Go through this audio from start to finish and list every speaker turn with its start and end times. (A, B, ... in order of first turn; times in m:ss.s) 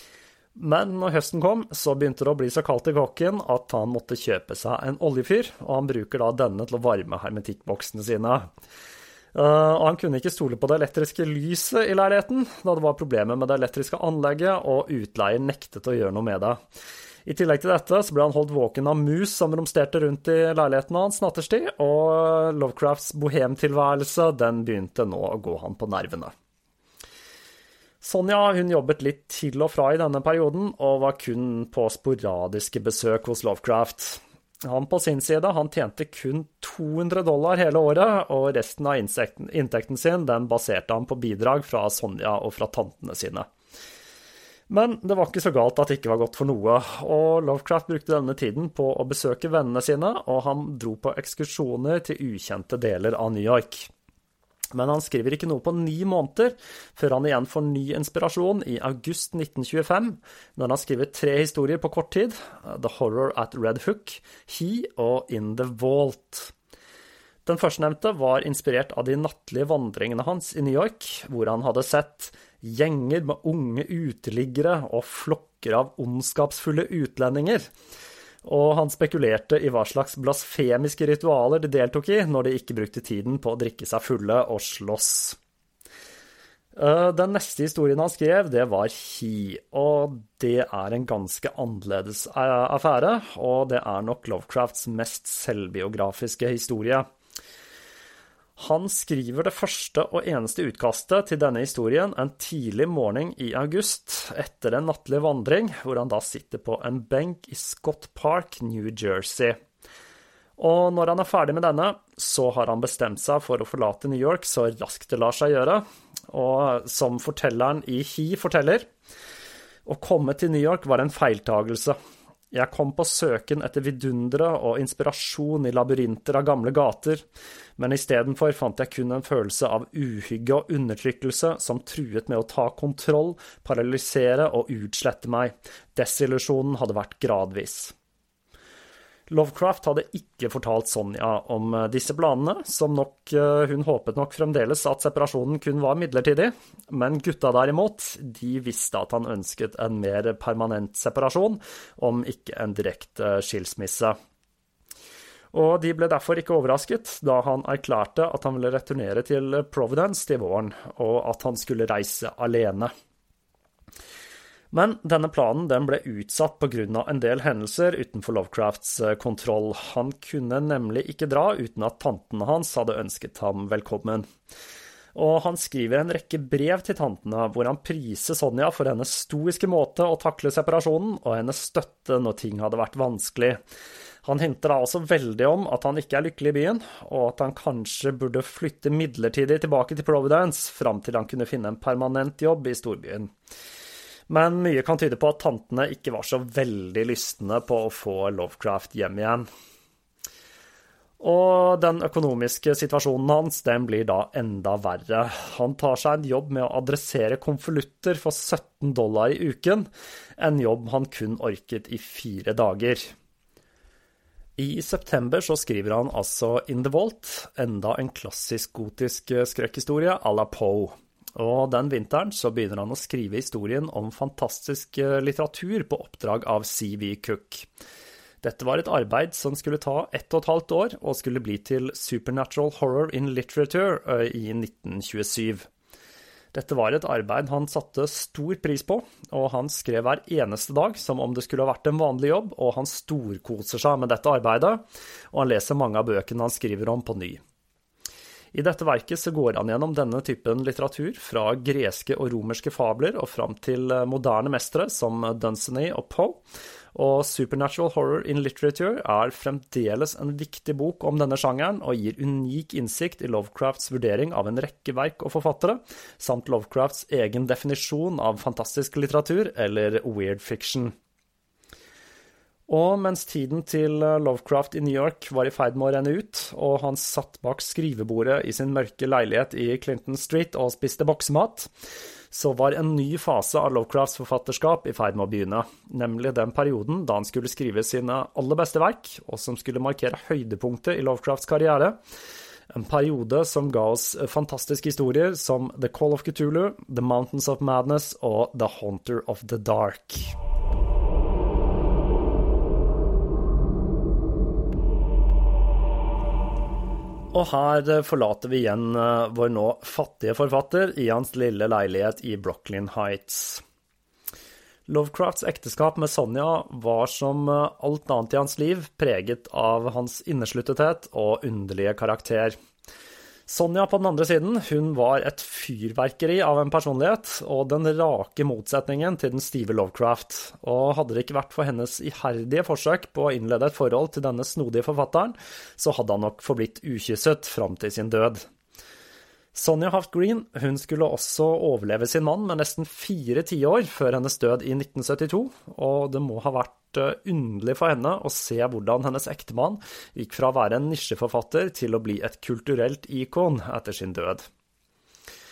0:00.6-0:08.5 A
0:09.3-0:16.6 A
0:17.3-0:26.3 A
0:28.0-0:43.5 A
0:44.7-0:53.9 A
0:54.7-1:06.5 A
1:07.5-1:17.7 A
1:18.4-1:25.4 A
1:26.8-1:37.1 A
1:38.6-1:49.6 A
1:50.6-1:58.9 A
1:59.9-2:02.0 A
2:02.5-2:07.2 A
2:07.8-2:17.9 A
2:19.3-2:34.2 A
2:35.5-2:42.9 A
2:44.7-2:54.3 A
2:55.2-3:03.6 A
3:04.2-3:13.3 A
3:14.3-3:19.5 A
3:21.2-3:33.1 A
3:34.6-3:47.7 A
3:48.4-3:55.7 A
3:56.5-4:07.4 A
4:08.5-4:16.4 A
4:17.0-4:30.9 A
4:32.7-4:41.7 A
4:42.3-4:52.0 A
4:52.7-5:00.4 A
5:07.3-5:13.6 A
5:14.9-5:22.5 A
5:23.5-5:38.4 A
5:39.5-5:54.5 A